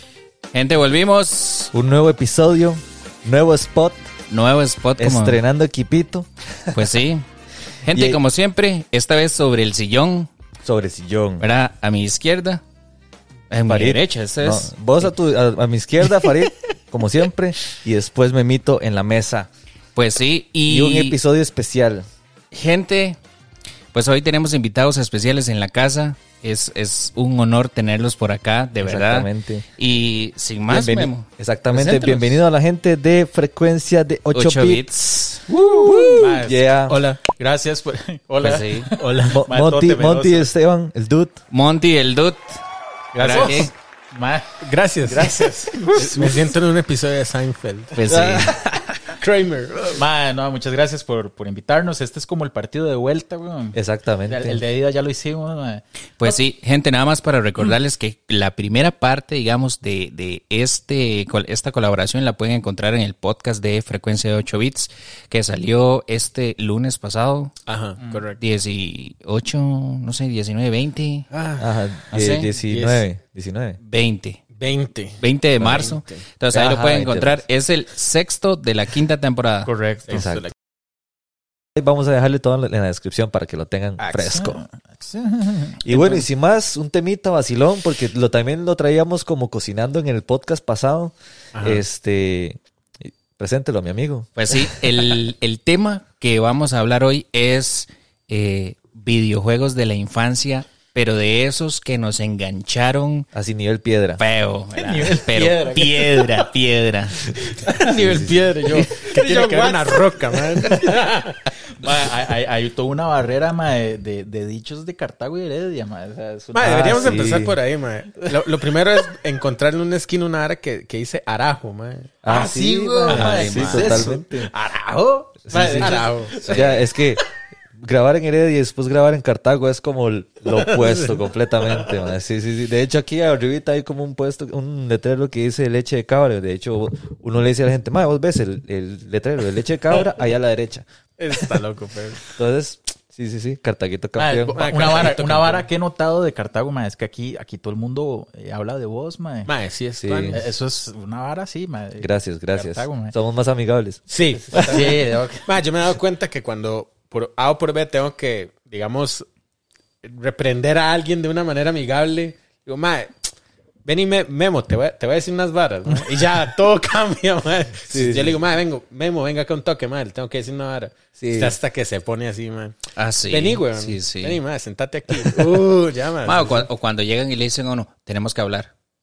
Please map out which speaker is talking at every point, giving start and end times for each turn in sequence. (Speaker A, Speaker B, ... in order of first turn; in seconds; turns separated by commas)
Speaker A: 0.5-1.7, Speaker B: 1.7-4.0, Speaker A: 4.3-5.4, Speaker B: 5.0-6.8, Speaker A: 6.7-7.2, Speaker A: 7.8-10.3, Speaker B: 7.9-8.2, Speaker B: 10.6-11.4, Speaker A: 11.4-12.6, Speaker A: 13.5-14.7, Speaker B: 13.7-19.5, Speaker A: 20.0-21.2, Speaker B: 20.7-22.1, Speaker A: 22.5-23.2, Speaker A: 23.9-32.4, Speaker B: 28.8-29.6, Speaker B: 30.7-34.8, Speaker A: 34.3-35.4, Speaker B: 35.5-37.0, Speaker C: 36.1-36.7, Speaker D: 36.9-37.2, Speaker C: 37.2-40.5, Speaker A: 38.4-38.9, Speaker B: 39.3-41.4, Speaker A: 41.5-42.6, Speaker C: 43.1-46.5, Speaker D: 43.2-43.7, Speaker A: 43.2-43.7, Speaker D: 44.6-47.9, Speaker A: 47.9-48.5, Speaker B: 48.1-48.8, Speaker D: 49.1-50.0, Speaker C: 50.0-56.4, Speaker B: 53.7-54.6, Speaker A: 56.2-67.5, Speaker D: 67.7-68.4, Speaker A: 68.4-71.3, Speaker D: 71.3-71.7, Speaker B: 71.6-73.8, Speaker A: 72.1-72.5, Speaker D: 72.6-73.0, Speaker A: 73.8-74.5, Speaker D: 74.6-76.2, Speaker A: 75.2-79.7, Speaker B: 76.5-77.4, Speaker C: 79.7-80.2, Speaker D: 80.0-80.5, Speaker B: 80.1-80.5, Speaker B: 81.8-84.6, Speaker C: 84.0-86.2, Speaker B: 85.8-94.8, Speaker D: 91.5-91.8, Speaker A: 94.4-103.3, Speaker B: 103.3-104.2, Speaker A: 104.2-107.2, Speaker C: 104.8-106.5, Speaker C: 107.4-117.3, Speaker B: 108.0-108.3, Speaker D: 108.7-111.4, Speaker D: 116.5-122.1, Speaker B: 116.6-117.6, Speaker B: 122.2-124.5, Speaker C: 122.3-126.8, Speaker A: 123.1-124.1, Speaker D: 123.1-124.0, Speaker B: 125.5-140.8, Speaker D: 125.5-126.7, Speaker D: 130.5-131.2, Speaker D: 141.2-142.2, Speaker B: 142.3-145.2, Speaker C: 144.2-149.5, Speaker D: 144.5-145.7, Speaker D: 149.5-150.4, Speaker B: 150.0-150.4, Speaker C: 150.3-153.1, Speaker B: 152.0-154.9, Speaker D: 154.1-159.3, Speaker C: 154.7-155.5, Speaker D: 160.0-176.7, Speaker C: 165.9-166.2, Speaker B: 167.9-168.4, Speaker B: 171.2-171.5, Speaker A: 173.0-174.4, Speaker A: 176.2-178.7